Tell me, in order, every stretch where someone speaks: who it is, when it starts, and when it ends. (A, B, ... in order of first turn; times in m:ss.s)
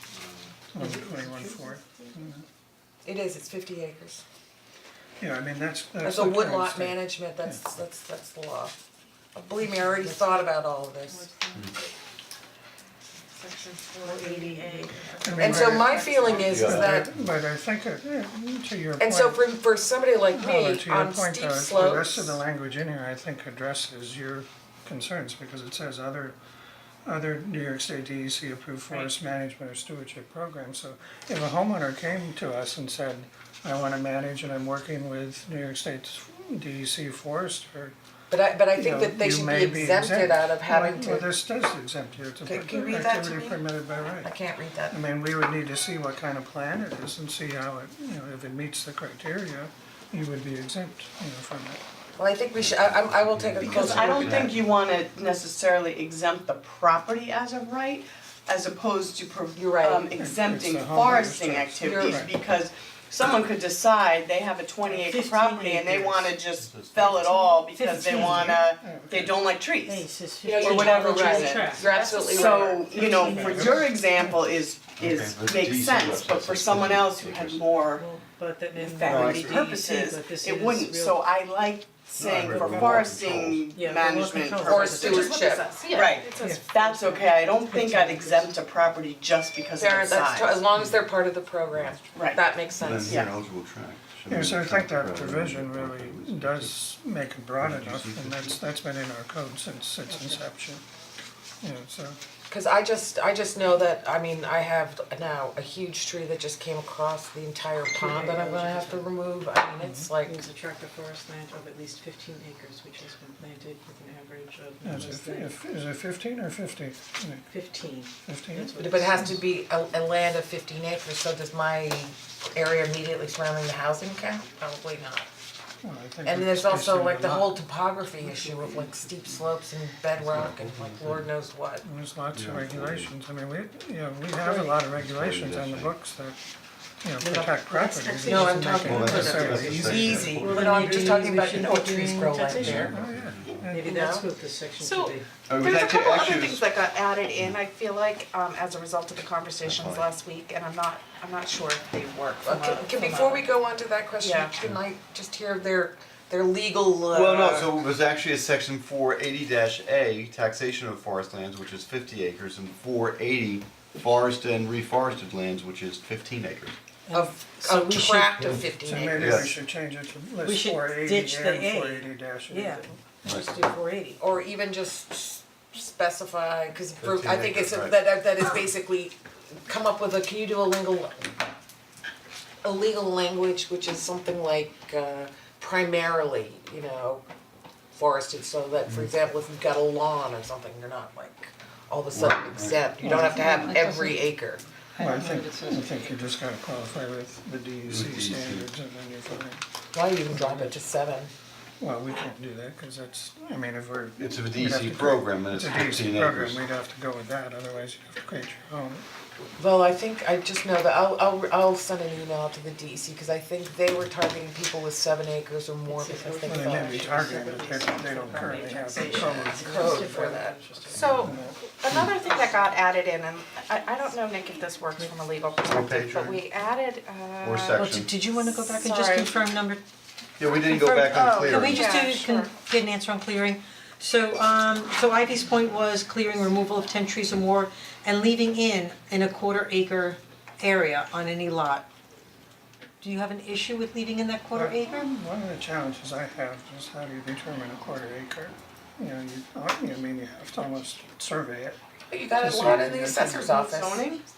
0:00.7-0:02.4 A
0:00.8-0:02.1 B
0:03.0-0:04.2 C
0:05.2-0:07.6 A
0:06.0-0:08.8 C
0:09.3-0:11.2 C
0:09.6-0:11.7 B
0:13.3-0:16.6 D
0:14.0-0:16.4 B
0:15.2-0:19.5 A
0:15.4-0:17.1 C
0:16.3-0:17.2 E
0:19.0-0:22.4 C
0:20.3-0:26.4 A
0:27.0-0:37.9 A
0:38.3-0:41.3 C
0:38.7-0:44.3 A
0:42.4-0:43.6 C
0:44.2-0:45.0 C
0:44.9-0:51.8 A
0:52.2-0:54.5 C
0:52.6-0:54.5 E
0:53.6-1:18.0 F
0:54.2-0:54.5 A
0:59.5-1:00.1 C
1:00.1-1:02.3 A
1:01.8-1:02.2 C
1:04.8-1:06.3 B
1:06.6-1:07.2 E
1:07.1-1:08.6 B
1:08.1-1:09.3 A
1:09.8-1:13.9 B
1:10.4-1:13.6 C
1:11.9-1:12.5 D
1:13.2-1:14.3 A
1:15.0-1:17.6 E
1:18.0-1:21.2 B
1:18.7-1:25.2 F
1:19.0-1:19.6 E
1:22.2-1:23.6 E
1:23.7-1:25.4 B
1:24.6-1:25.8 C
1:25.0-1:27.6 D
1:25.9-1:30.7 F
1:26.4-1:28.5 B
1:29.8-1:33.2 C
1:32.1-1:32.4 F
1:32.8-1:36.7 E
1:33.0-1:33.3 F
1:34.3-1:40.8 A
1:37.6-1:38.6 E
1:40.0-1:40.4 B
1:41.6-1:42.2 A
1:42.5-1:50.4 C
1:47.8-1:49.0 B
1:49.8-1:50.1 A
1:50.2-1:55.5 B
1:54.8-1:57.5 A
1:57.5-1:59.4 B
1:58.2-1:59.3 A
1:58.8-2:05.3 C
2:05.8-2:07.6 A
2:06.2-2:11.8 C
2:08.2-2:08.9 B
2:10.2-2:11.3 E
2:11.8-2:16.4 A
2:12.3-2:13.1 E
2:14.4-2:14.7 B
2:14.9-2:15.9 E
2:17.0-2:20.4 A
2:17.2-2:22.9 B
2:18.2-2:23.0 C
2:18.8-2:21.2 E
2:22.5-2:23.6 E
2:22.6-2:24.0 A
2:23.7-2:25.3 B
2:23.8-2:24.2 C
2:24.8-2:33.5 D
2:25.5-2:26.6 E
2:29.6-2:30.1 E
2:32.4-2:37.8 C
2:34.2-2:34.5 D
2:37.1-2:46.7 E
2:47.1-2:48.6 B
2:47.1-2:49.5 C
2:48.8-2:53.0 A
2:49.2-2:49.5 E
2:50.4-2:54.2 B
2:53.2-2:53.5 E
2:54.2-3:01.3 C
2:57.0-2:58.0 E
3:02.6-3:07.2 C
3:07.9-3:14.6 C
3:12.1-3:12.8 E
3:13.0-3:13.4 A
3:13.1-3:14.3 B
3:14.9-3:16.2 B
3:15.0-3:19.6 A
3:17.8-3:18.7 E
3:19.9-3:21.3 C
3:20.3-3:20.8 A
3:21.8-3:29.0 A
3:24.2-3:26.6 E
3:29.6-3:37.2 C
3:35.8-3:41.4 B
3:36.4-3:40.4 A
3:38.0-3:39.6 D
3:39.2-3:40.6 C
3:40.9-3:47.9 D
3:40.9-3:41.6 A
3:45.7-3:46.4 E
3:47.4-3:48.1 E
3:47.7-3:49.8 B
3:48.6-3:49.4 D
3:50.4-3:51.9 E
3:50.5-4:01.9 B
3:51.1-3:52.5 D
4:03.0-4:05.1 B
4:04.5-4:11.8 A
4:12.1-4:14.1 C
4:12.4-4:13.4 A
4:13.2-4:14.2 F